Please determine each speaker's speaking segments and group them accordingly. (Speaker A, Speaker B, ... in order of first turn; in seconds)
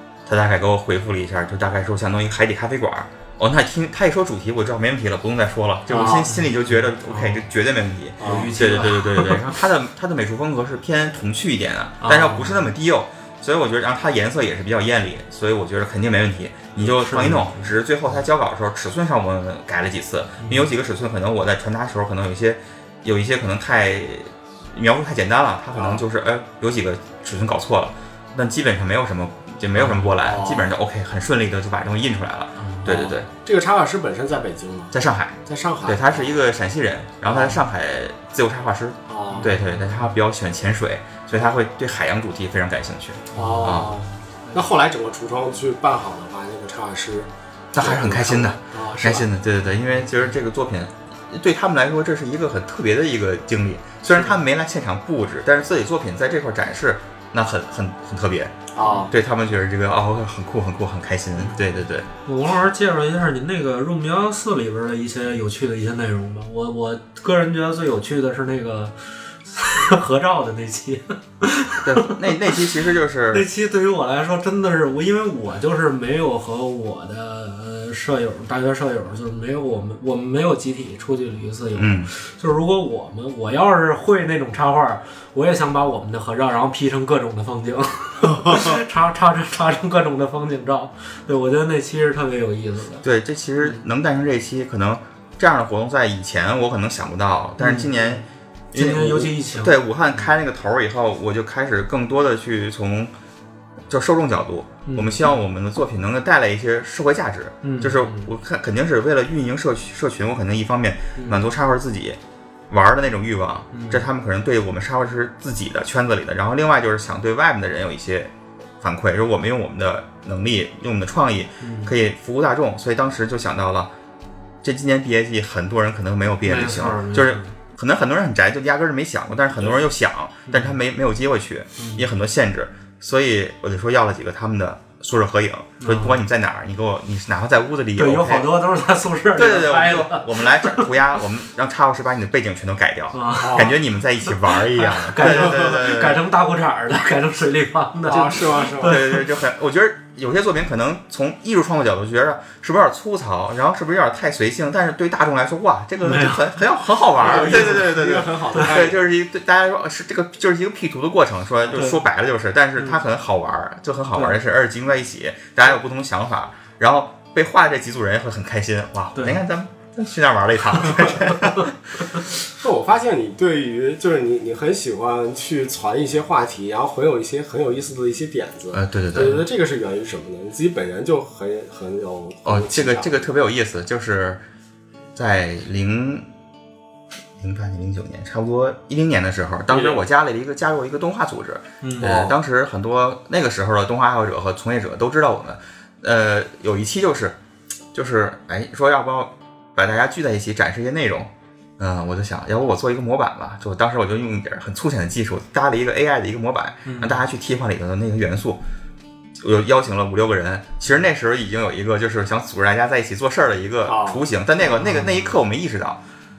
Speaker A: 0.3-33.3, 34.9-43.9, 47.7-62.1, 71.8-73.5, 81.8-82.1, 93.0-103.1, 103.9-112.2, 112.7-123.9, 124.6-138.5, 139.3-146.2, 148.8-171.8, 178.7-179.4, 182.4-184.4, 185.1-186.3, 187.4-197.4, 197.9-208.6, 209.4-216.0
Speaker B: 5.9-7.4, 8.2-9.4, 12.0-12.7, 16.9-17.7, 20.4-20.7, 29.8-30.2, 32.6-33.1, 39.3-40.0, 43.3-44.5, 58.8-59.1, 61.4-61.7, 62.2-93.0, 97.6-100.3, 104.9-105.4, 107.6-108.3, 111.2-111.4, 113.7-114.0, 121.6-121.9, 126.4-127.5, 130.5-130.8, 131.8-132.1, 135.8-136.2, 138.0-140.9, 143.1-143.8, 144.3-149.3, 156.0-156.5, 157.2-158.7, 161.7-162.0, 162.8-163.0, 164.1-164.4, 169.2-169.4, 191.8-192.3, 206.8-207.2, 214.6-215.3
Speaker C: 5.9-6.3, 8.2-8.5, 25.7-26.0, 30.2-30.7, 33.3-34.9, 35.5-36.3, 37.3-37.6, 39.1-39.6, 43.3-49.3, 58.7-59.1, 88.3-88.8, 143.4-143.8, 148.1-149.0, 157.2-159.0, 172.6-183.2, 189.7-190.0, 192.0-192.3, 213.9-214.2